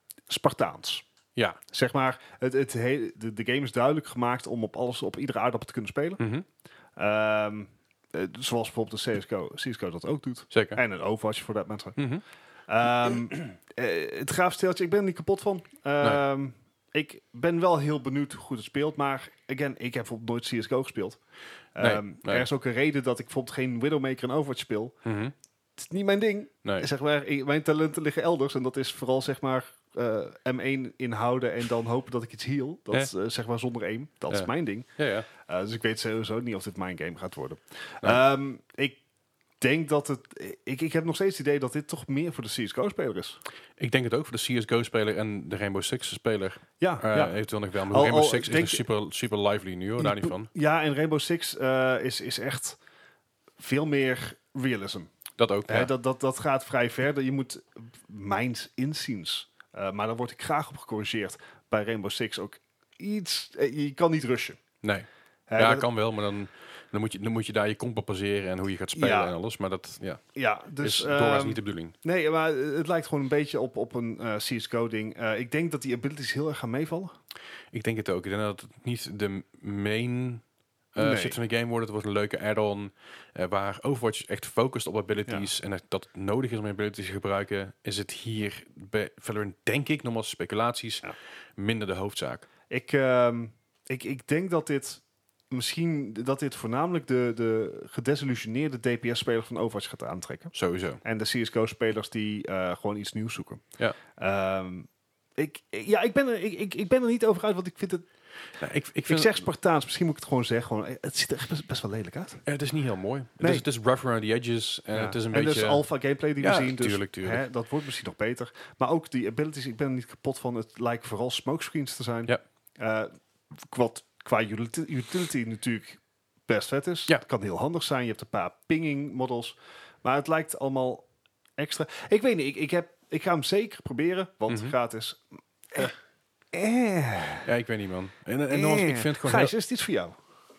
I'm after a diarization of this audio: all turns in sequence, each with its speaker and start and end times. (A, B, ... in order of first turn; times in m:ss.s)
0:00.3-0:01.0 A
0:01.7-0:06.2 A
0:06.2-0:06.4 B
0:07.0-0:12.0 A
0:10.5-0:10.8 B
0:12.0-0:12.2 B
0:12.7-0:21.2 A
0:21.7-0:24.9 A
0:21.8-0:22.5 B
0:25.0-0:25.3 B
0:25.8-0:34.9 A
0:34.3-0:35.3 B
0:35.4-0:39.0 A
0:39.6-0:43.4 A
0:43.8-0:50.5 B
0:46.8-0:47.4 A
0:47.9-0:48.8 A
0:50.0-0:52.8 A
0:53.6-0:55.1 A
0:55.4-0:55.9 B
0:55.7-1:04.6 A
1:04.8-1:10.2 B
1:05.5-1:05.8 A
1:08.9-1:09.3 A
1:10.3-1:17.1 A
1:10.8-1:11.9 B
1:17.7-1:20.4 B
1:20.9-1:32.4 B
1:21.0-1:21.4 A
1:32.7-1:40.5 A
1:40.5-1:41.0 B
1:41.0-1:43.6 A
1:44.2-1:48.0 A
1:48.6-1:49.4 B
1:49.1-1:52.4 A
1:52.4-1:55.8 B
1:53.4-1:53.6 A
1:54.9-2:11.0 A
1:56.4-1:57.4 B
2:11.6-2:15.9 A
2:14.5-2:14.7 B
2:16.5-2:17.5 A
2:17.4-2:19.5 B
2:18.5-2:20.1 A